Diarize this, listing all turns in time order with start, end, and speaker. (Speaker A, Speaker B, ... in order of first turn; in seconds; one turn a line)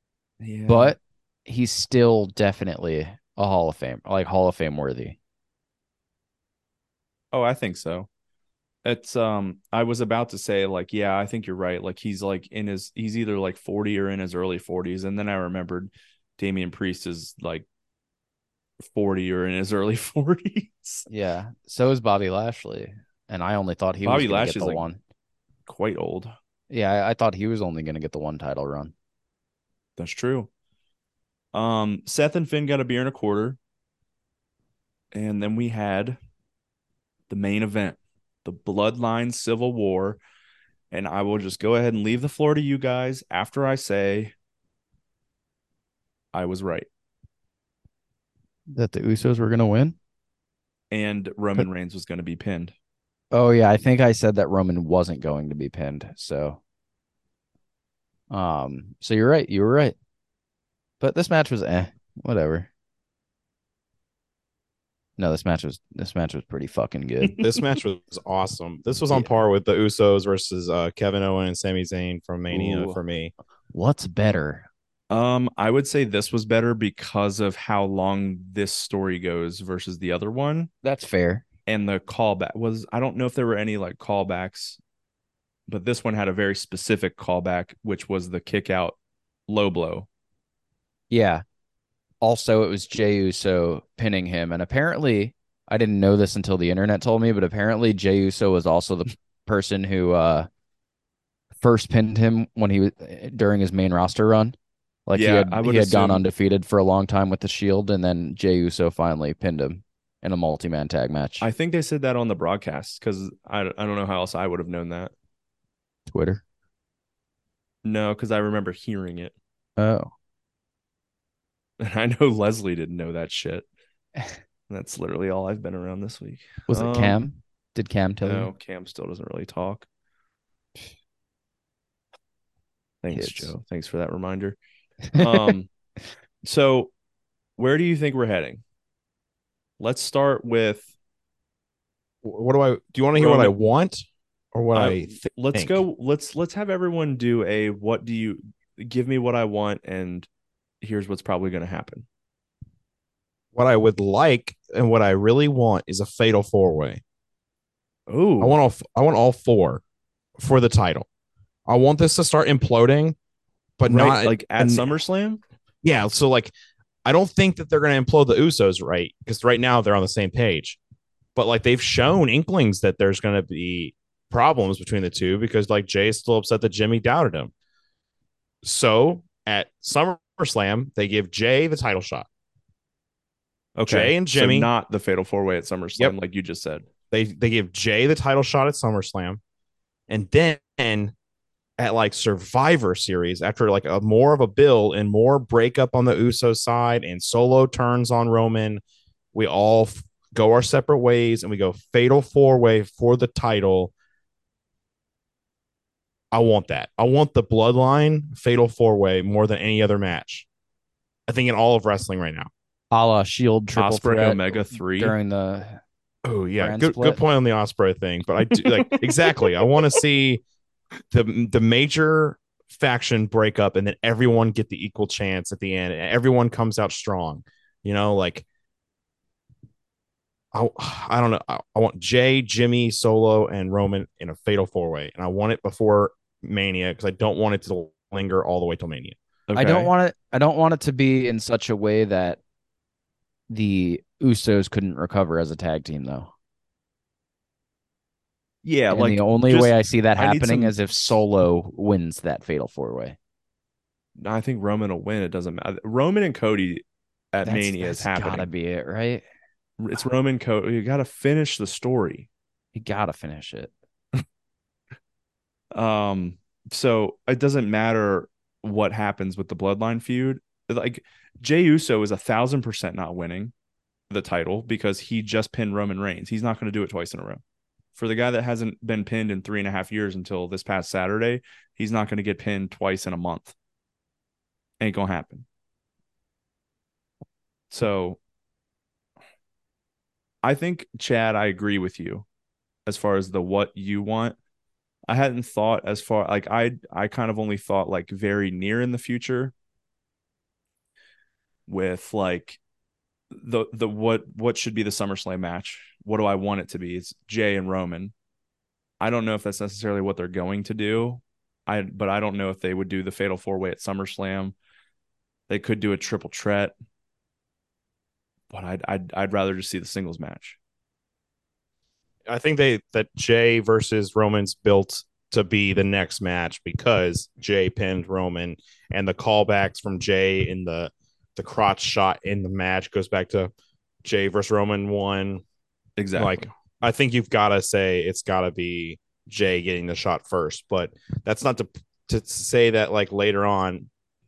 Speaker A: 0.4-1.0
Speaker B: 0.7-5.2
Speaker A: 7.3-8.1
Speaker A: 8.8-17.7
Speaker A: 18.8-21.1
Speaker B: 21.1-25.0
Speaker A: 24.0-24.8
Speaker A: 25.7-26.3
Speaker B: 26.7-28.9
Speaker A: 30.0-30.5
Speaker A: 31.5-33.6
Speaker A: 35.1-36.2
Speaker A: 37.3-40.2
Speaker A: 40.9-44.3
Speaker A: 46.3-46.9
Speaker B: 48.7-50.0
Speaker A: 50.9-52.7
Speaker B: 53.3-56.6
Speaker B: 58.3-60.0
Speaker B: 61.0-62.7
Speaker B: 65.2-67.4
Speaker C: 67.4-73.3
Speaker A: 72.5-73.0
Speaker B: 73.7-74.7
Speaker A: 75.1-80.7
Speaker B: 80.8-81.4
Speaker A: 81.7-84.8
Speaker A: 85.7-89.0
Speaker A: 89.5-90.1
Speaker B: 91.1-91.4
Speaker B: 92.2-100.5
Speaker B: 101.6-104.5
Speaker B: 105.1-111.5
Speaker A: 105.1-106.2
Speaker A: 111.4-115.1
Speaker B: 116.1-116.4
Speaker A: 117.8-119.3
Speaker B: 119.8-120.1
Speaker A: 121.8-123.7
Speaker A: 124.7-127.2
Speaker B: 126.7-128.5
Speaker A: 128.2-129.9
Speaker A: 133.0-134.6
Speaker B: 133.1-133.5
Speaker B: 135.1-135.5
Speaker A: 135.1-135.7
Speaker A: 136.4-136.9
Speaker A: 137.6-138.6
Speaker A: 139.8-140.9
Speaker C: 142.2-145.8
Speaker A: 143.2-143.6
Speaker A: 144.7-150.3
Speaker A: 150.8-152.1
Speaker C: 153.6-157.0
Speaker A: 158.1-158.6
Speaker C: 158.4-159.8
Speaker C: 160.4-161.1
Speaker C: 161.7-163.2
Speaker C: 163.8-164.9
Speaker A: 163.9-165.4
Speaker C: 165.8-166.5
Speaker C: 167.1-170.8
Speaker C: 171.3-177.5
Speaker C: 178.6-182.3
Speaker A: 183.8-186.9
Speaker C: 183.9-184.7
Speaker C: 187.1-189.4
Speaker C: 190.1-191.1
Speaker C: 191.8-198.8
Speaker C: 199.3-203.9
Speaker C: 206.3-210.5
Speaker C: 211.3-212.5
Speaker B: 212.9-215.8
Speaker A: 213.8-215.2
Speaker C: 216.2-220.4
Speaker B: 216.6-217.2
Speaker A: 218.6-219.1
Speaker C: 221.1-228.4
Speaker C: 230.5-239.2
Speaker A: 239.5-239.9
Speaker B: 239.6-242.4
Speaker B: 243.5-246.3
Speaker A: 248.6-250.8
Speaker B: 248.9-253.2
Speaker A: 254.2-258.5
Speaker B: 257.4-259.2
Speaker A: 259.8-262.3
Speaker B: 262.7-263.7
Speaker A: 265.7-273.5
Speaker A: 274.1-277.4
Speaker A: 277.9-283.5
Speaker A: 284.8-285.4
Speaker A: 287.7-288.2
Speaker A: 290.4-292.3
Speaker A: 292.9-294.4
Speaker A: 295.1-299.5
Speaker A: 301.7-302.6
Speaker A: 303.3-308.1
Speaker A: 309.0-314.6
Speaker A: 315.5-316.7
Speaker A: 318.5-320.6
Speaker C: 322.3-333.5
Speaker C: 334.0-335.4
Speaker A: 336.0-336.5
Speaker C: 336.2-343.9